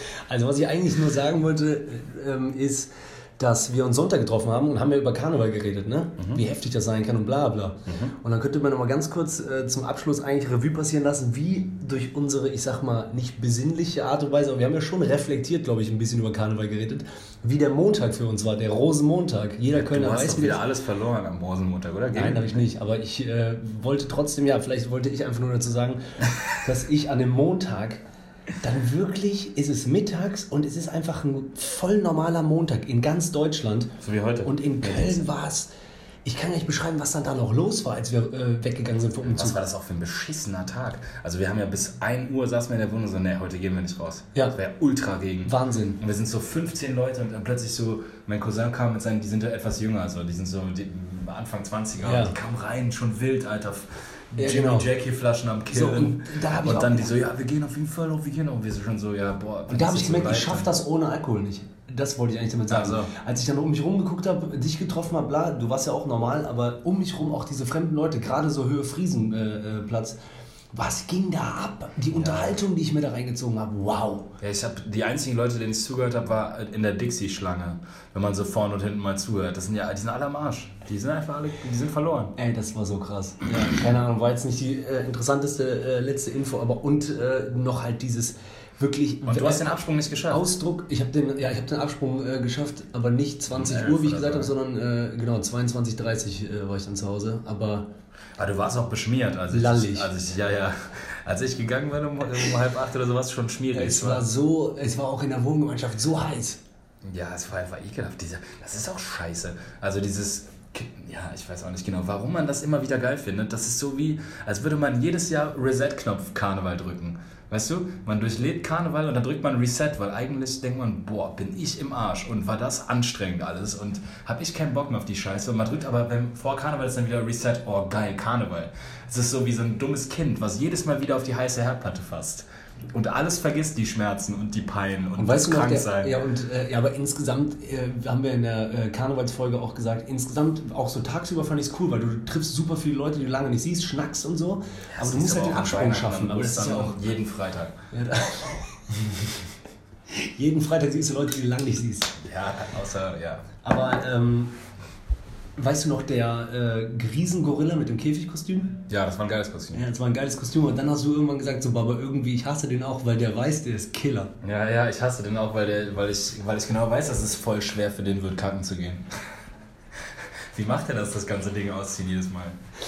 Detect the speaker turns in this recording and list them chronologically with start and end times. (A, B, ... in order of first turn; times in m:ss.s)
0:00.3-0:20.6 A
0:07.9-0:08.1 B
0:19.8-0:22.6 B
0:22.1-0:28.0 A
0:28.6-0:35.7 A
0:34.0-0:35.3 B
0:36.2-0:39.6 A
0:39.2-1:00.7 B
0:45.4-0:46.0 A
0:52.0-0:52.4 A
0:54.4-0:54.9 A
0:55.7-0:57.2 A
0:59.7-1:10.2 A
1:02.7-1:03.1 B
1:10.7-1:14.3 A
1:12.1-1:12.6 B
1:14.4-1:22.4 B
1:22.4-1:29.8 A
1:29.2-1:30.5 B
1:30.3-1:37.9 A
1:33.5-1:34.5 B
1:38.4-1:44.3 B
1:39.5-1:40.1 A
1:43.7-1:46.6 A
1:47.0-2:16.2 B
2:15.2-2:27.0 A
2:25.0-2:27.8 B
2:27.9-2:29.3 A
2:30.1-2:32.2 A
2:32.2-2:33.5 B
2:33.6-2:34.5 A
2:35.6-2:38.8 A
2:38.9-2:39.8 B
2:39.7-2:44.3 A
2:44.4-2:49.1 B
2:50.1-2:52.6 B